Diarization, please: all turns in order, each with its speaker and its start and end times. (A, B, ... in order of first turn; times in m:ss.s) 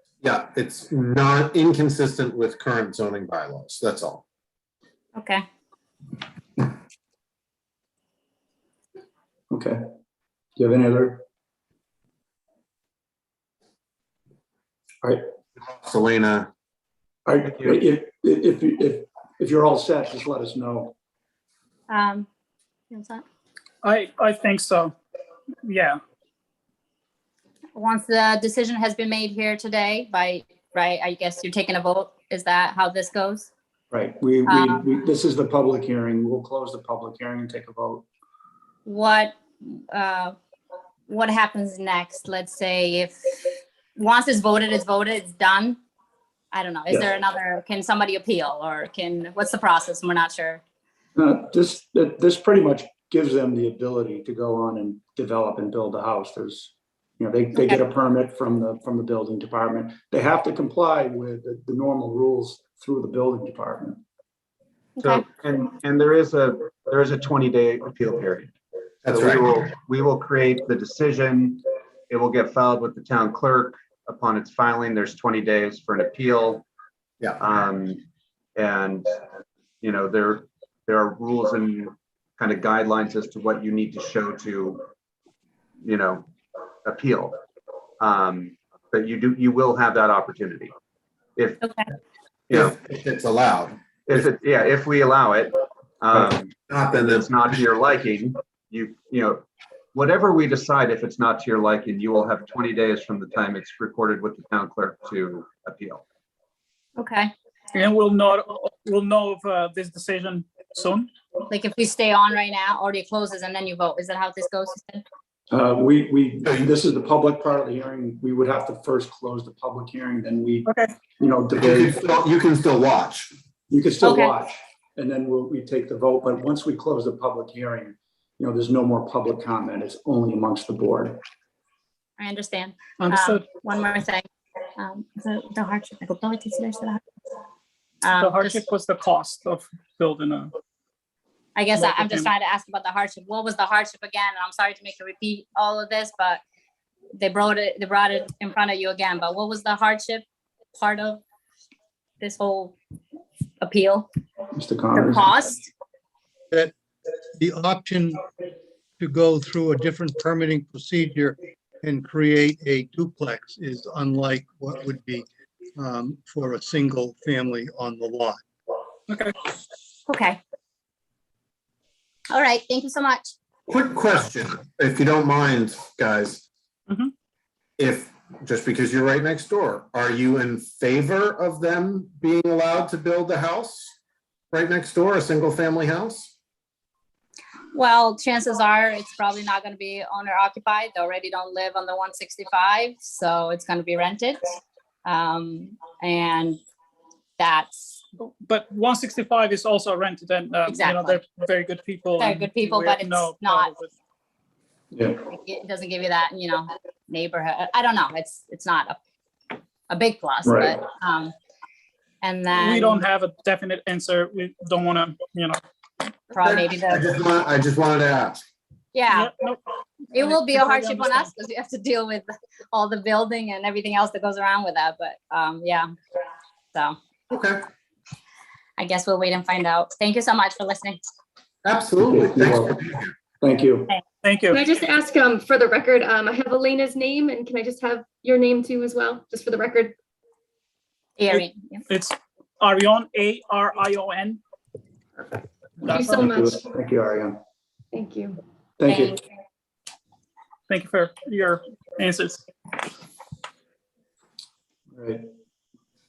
0:00.2-0:04.2 A
0:05.2-0:05.4 B
0:09.5-0:09.8 C
0:10.6-0:11.2 C
0:15.6-0:16.5 A
0:17.3-0:20.9 C
0:17.4-0:17.8 D
0:21.9-0:22.3 B
0:22.9-0:23.2 B
0:23.8-0:25.0 E
0:25.6-0:26.0 E
0:27.8-0:33.5 B
0:33.9-0:38.0 C
0:34.5-0:34.9 B
0:38.9-0:40.4 B
0:41.1-0:43.2 B
0:44.0-0:45.8 B
0:46.5-0:50.6 B
0:51.2-1:04.0 C
0:57.6-0:57.8 B
1:05.0-1:05.2 B
1:05.0-1:08.5 D
1:09.0-1:09.6 A
1:09.1-1:16.6 D
1:17.4-1:18.0 D
1:18.6-1:19.2 D
1:19.8-1:24.8 D
1:25.8-1:26.2 D
1:26.8-1:27.4 D
1:28.0-1:30.7 D
1:31.4-1:31.6 D
1:32.5-1:33.7 A
1:34.1-1:46.0 D
1:36.2-1:37.4 A
1:47.0-1:47.3 B
1:47.7-1:51.1 E
1:51.5-1:55.0 B
1:55.5-2:02.0 C
2:00.7-2:00.9 E
2:01.6-2:03.3 A
2:03.7-2:11.2 C
2:04.0-2:04.3 B
2:12.2-2:14.2 B
2:13.0-2:13.4 E
2:14.8-2:17.0 B
2:18.0-2:18.6 B
2:18.2-2:20.5 E
2:21.6-2:26.4 B
2:21.8-2:22.3 E
2:27.2-2:30.2 B
2:30.8-2:31.2 B
2:32.2-2:32.8 B
2:33.6-2:34.1 B
2:34.6-2:35.4 C
2:34.9-2:35.7 B
2:37.4-2:38.2 F
2:39.0-2:45.3 F
2:45.8-2:48.4 F
2:49.1-2:49.4 E
2:50.1-2:50.4 B
2:52.3-2:53.3 B
2:53.7-2:56.4 A
2:57.8-3:04.0 A
3:04.5-3:06.3 A
3:07.7-3:14.4 B
3:15.0-3:16.6 B
3:17.4-3:18.0 B
3:18.2-3:23.9 E
3:20.7-3:21.2 B
3:22.2-3:23.7 B
3:24.9-3:25.2 C
3:25.3-3:29.0 B
3:29.9-3:31.3 B
3:30.4-3:30.8 C
3:32.2-3:33.0 B
3:32.5-3:35.6 E
3:36.3-3:37.1 B
3:36.4-3:38.4 A
3:38.9-3:39.3 B
3:39.1-3:39.6 E
3:40.1-3:41.3 E
3:40.1-3:45.9 B
3:47.3-3:47.6 A
3:48.8-3:51.0 B
3:51.6-3:53.1 A
3:52.0-3:52.8 C
3:53.4-3:53.9 C
3:54.2-3:54.6 E
3:54.5-4:00.0 G
4:01.2-4:01.8 B
4:01.3-4:04.4 E
4:05.8-4:06.3 E
4:05.9-4:06.6 G
4:06.1-4:07.4 C
4:07.9-4:08.4 G
4:08.8-4:09.2 C
4:08.9-4:09.2 B
4:10.7-4:12.4 E
4:14.9-4:15.3 C